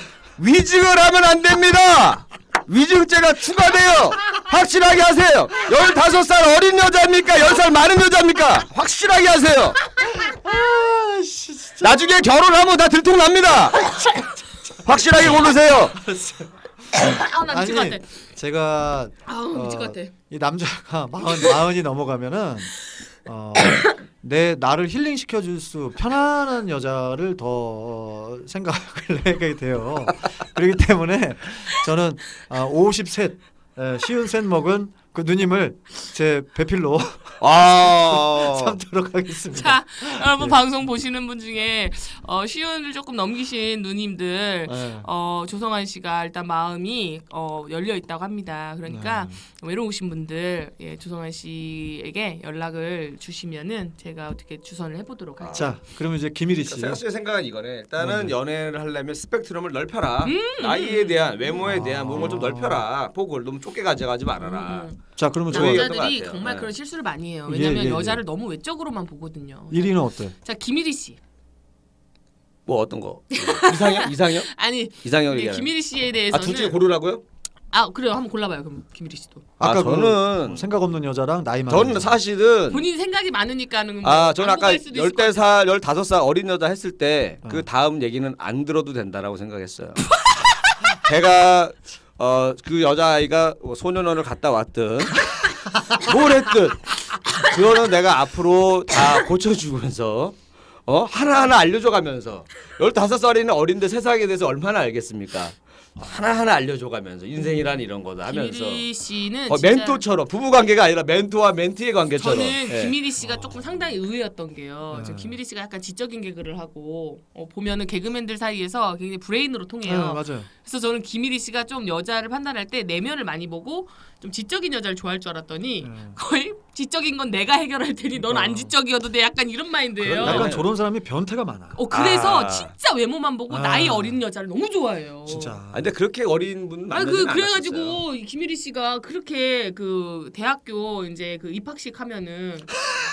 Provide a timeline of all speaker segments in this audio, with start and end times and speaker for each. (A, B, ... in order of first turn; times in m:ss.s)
0:00.4-0:09.8 A
0:10.0-0:12.1 B
0:11.8-0:13.9 A
0:14.1-0:40.6 B
0:14.8-0:16.0 A
0:17.0-0:18.0 C
0:19.2-0:20.1 C
0:37.4-0:38.8 A
0:39.5-0:55.7 C
0:44.7-0:45.1 B
0:48.9-0:49.4 B
0:55.4-0:55.7 A
0:55.5-0:57.0 B
0:56.6-1:04.9 A
0:58.0-0:58.4 B
1:00.2-1:01.6 C
1:01.6-1:02.8 B
1:04.4-1:11.2 C
1:05.2-1:05.9 B
1:05.5-1:06.7 A
1:07.5-1:08.2 B
1:09.7-1:10.3 B
1:12.7-1:15.7 A
1:13.3-1:16.8 C
1:16.3-1:17.2 A
1:17.7-1:19.4 C
1:19.6-1:22.1 B
1:19.6-1:20.7 A
1:21.7-1:22.8 A
1:22.7-1:25.4 C
1:24.0-1:30.2 A
1:31.0-1:48.8 A
1:48.2-1:50.0 C
1:49.5-1:53.0 A
1:52.2-2:10.5 C
1:53.2-1:53.6 B
1:54.9-1:55.4 B
1:59.8-2:00.5 B
2:05.8-2:06.2 B
2:08.2-2:08.7 B
2:10.0-2:10.7 A
2:10.2-2:11.8 B
2:11.7-2:15.6 C
2:11.9-2:12.7 A
2:13.5-2:14.2 B
2:15.2-2:15.9 B
2:15.7-2:18.0 A
2:16.9-2:22.7 C